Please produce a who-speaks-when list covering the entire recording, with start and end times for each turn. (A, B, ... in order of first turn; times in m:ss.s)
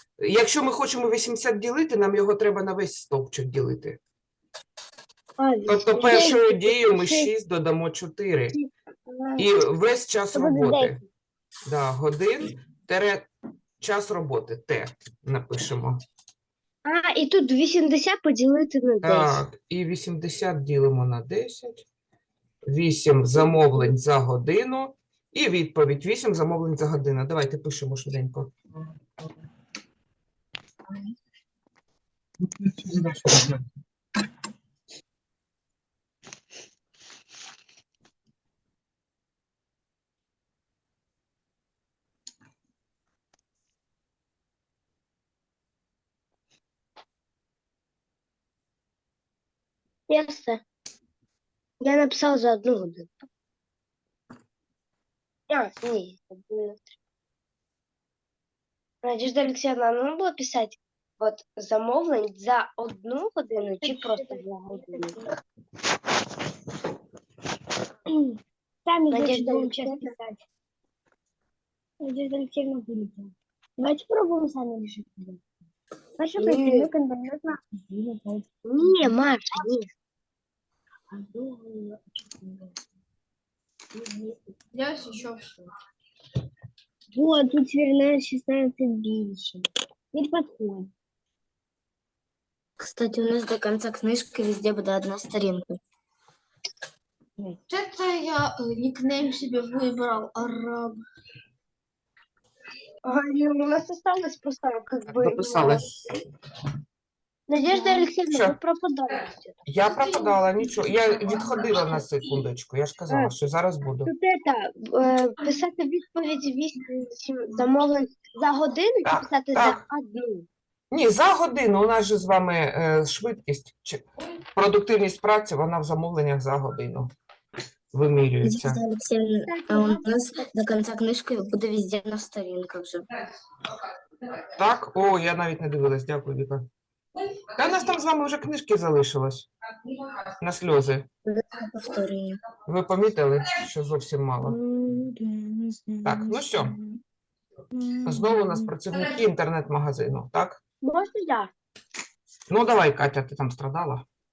0:00.2-0:04.0 A
0:05.4-0:06.3 B
0:05.7-0:08.6 A
0:06.0-0:07.3 C
0:08.5-0:09.4 B
0:09.4-0:11.0 A
0:10.3-0:11.0 C
0:11.7-0:13.2 A
0:13.8-0:16.0 A
0:16.8-0:19.4 B
0:19.0-0:21.8 A
0:22.7-0:28.6 A
0:23.3-0:23.9 B
0:32.4-0:33.6 A
0:50.1-0:50.6 B
0:51.8-0:53.2 B
0:55.5-0:56.9 B
0:59.0-1:05.2 B
1:03.6-1:05.3 C
1:08.1-1:10.4 C
1:09.1-1:10.1 B
1:12.0-1:15.4 C
1:16.2-1:19.1 C
1:16.4-1:16.9 B
1:18.6-1:19.9 B
1:21.1-1:22.7 C
1:23.9-1:24.5 C
1:24.7-1:25.6 D
1:27.1-1:30.9 C
1:32.8-1:35.8 E
1:37.7-1:41.0 D
1:43.0-1:45.8 B
1:45.1-1:46.2 A
1:47.5-1:49.6 B
1:48.3-1:48.6 A
1:49.7-1:54.1 A
1:54.0-2:00.5 B
1:59.0-1:59.8 A
2:00.9-2:04.0 A
2:04.5-2:07.1 A
2:07.9-2:08.8 A
2:08.4-2:13.0 E
2:09.5-2:10.5 B
2:14.5-2:16.6 A
2:17.5-2:19.5 A
2:20.4-2:21.1 A
2:21.2-2:22.4 E
2:22.6-2:24.6 A
2:25.9-2:26.4 D
2:26.0-2:26.8 A
2:27.8-2:28.5 D
2:28.0-2:30.6 A
2:30.8-2:31.5 B
2:32.5-2:34.0 A